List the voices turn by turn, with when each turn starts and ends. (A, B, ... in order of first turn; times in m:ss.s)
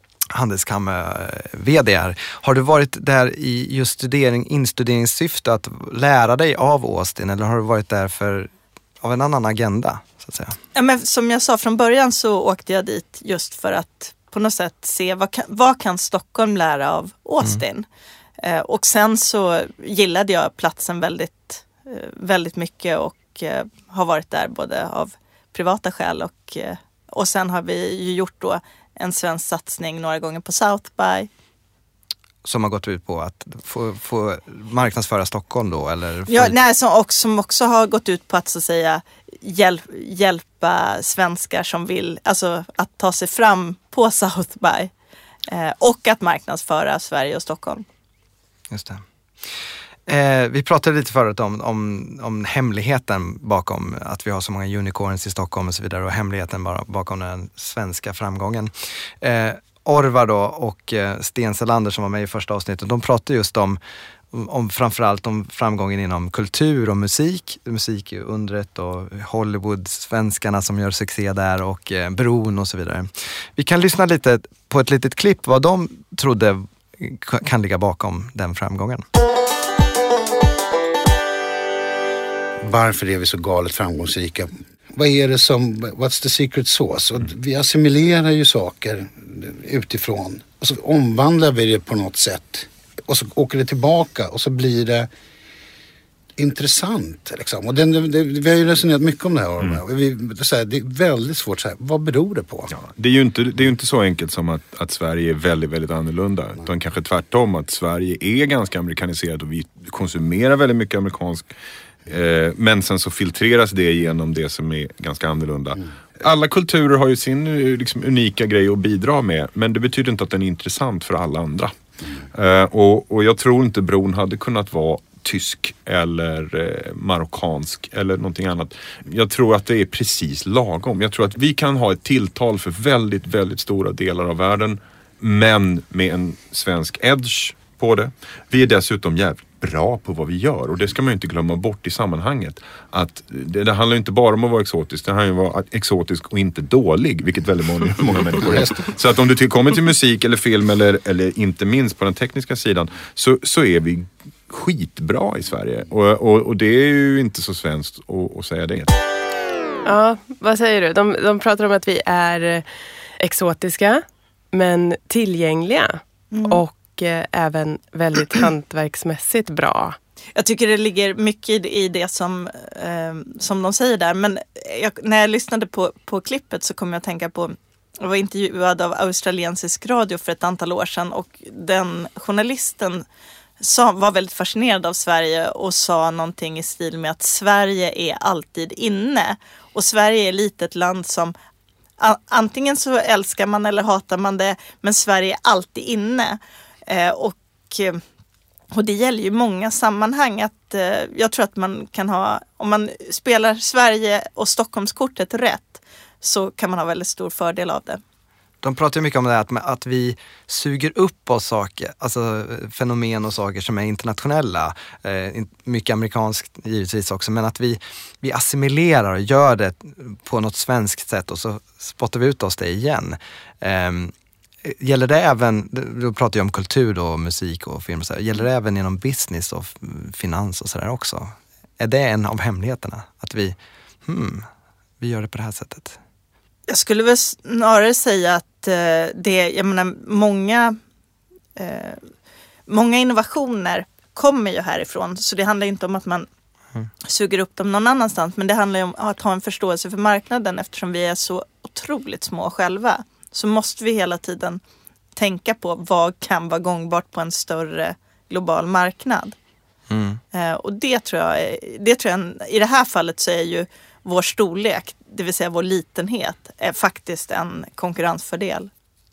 0:00.3-0:10.6 A
0:10.8-0:17.9 B
0:18.4-0:31.3 B
0:32.4-0:36.6 A
0:36.3-0:44.9 B
0:45.5-0:47.8 B
0:48.7-0:49.0 A
0:50.1-1:03.8 A
1:04.3-1:19.0 A
1:22.6-1:35.1 C
1:36.4-1:42.7 C
1:42.7-1:51.5 D
1:52.1-2:01.7 D
2:02.3-2:38.9 D
2:39.8-2:42.6 E
2:43.2-2:50.0 E
2:46.3-2:46.6 B
2:50.4-3:03.0 B
3:03.6-3:11.3 B
3:12.0-3:18.0 B
3:18.7-3:28.0 B
3:28.6-3:44.1 A
3:44.6-3:54.5 A
3:55.0-3:56.0 A
3:56.7-4:00.8 B
4:01.6-4:02.0 B
4:02.7-4:06.3 B
4:07.0-4:14.6 B
4:15.2-4:19.4 B
4:19.9-4:20.2 A
4:20.3-4:28.7 B